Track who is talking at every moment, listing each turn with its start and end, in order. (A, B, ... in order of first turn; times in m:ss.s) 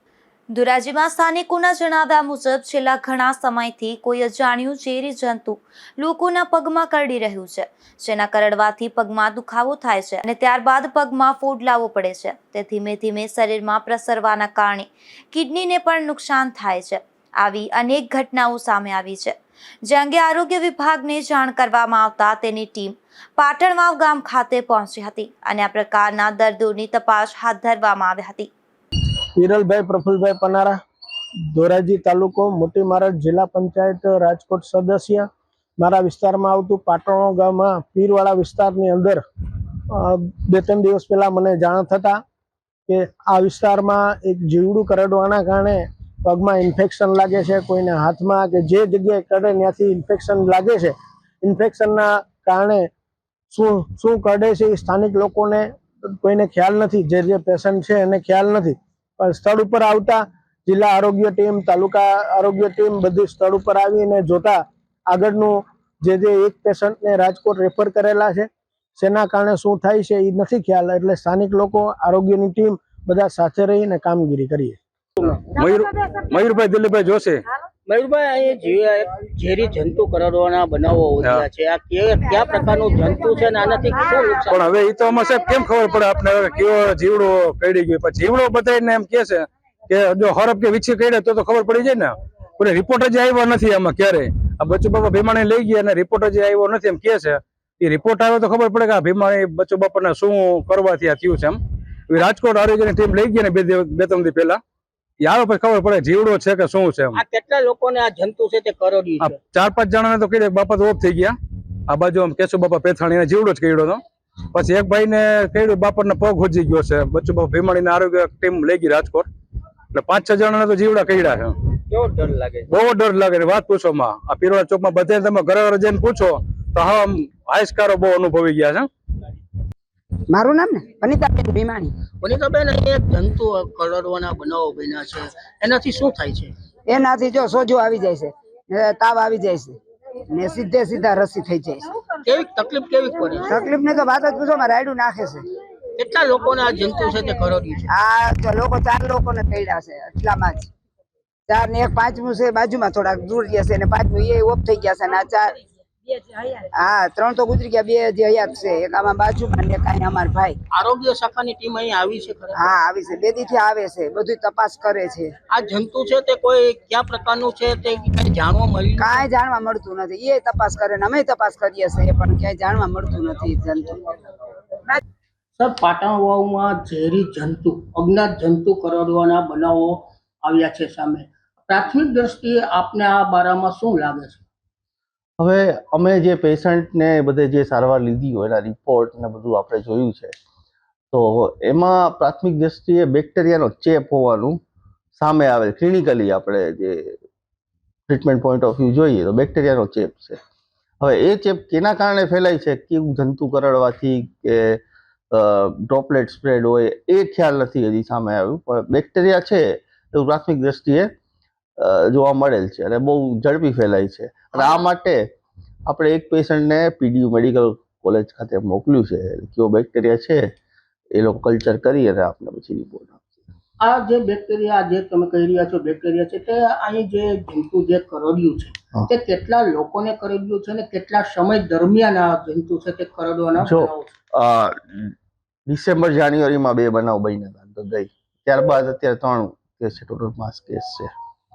0:00.5-0:28.5 A
0:29.4-0:30.8 B
0:31.5-0:39.2 B
0:39.9-0:42.2 B
0:42.9-0:52.9 B
0:53.5-1:14.8 B
1:15.5-1:17.4 C
1:17.9-1:24.7 D
1:24.5-1:41.6 C
1:42.1-1:44.6 C
1:45.2-1:47.2 C
1:47.1-1:49.4 D
1:49.2-1:51.3 C
1:51.9-1:54.0 C
1:54.5-1:59.2 C
1:59.9-2:01.5 C
2:01.9-2:02.6 D
2:02.7-2:08.9 C
2:10.3-2:11.9 E
2:12.2-2:16.5 D
2:16.9-2:19.8 E
2:20.3-2:21.8 E
2:22.2-2:23.6 D
2:23.5-2:25.4 E
2:26.0-2:27.9 D
2:27.9-2:30.7 E
2:31.5-2:35.6 E
2:36.7-2:40.6 E
2:40.7-2:42.6 D
2:42.6-2:45.3 E
2:45.5-2:49.2 D
2:49.0-2:54.2 E
2:55.6-3:04.5 D
3:05.4-3:10.3 F
3:11.1-3:14.6 F
3:15.2-3:17.2 F
3:18.1-3:20.4 F
3:21.0-3:31.1 F
3:31.8-3:35.2 F
3:35.9-3:40.4 F
3:41.2-3:43.4 F
3:43.8-3:54.1 D
3:53.6-3:55.1 F
3:55.7-4:01.1 F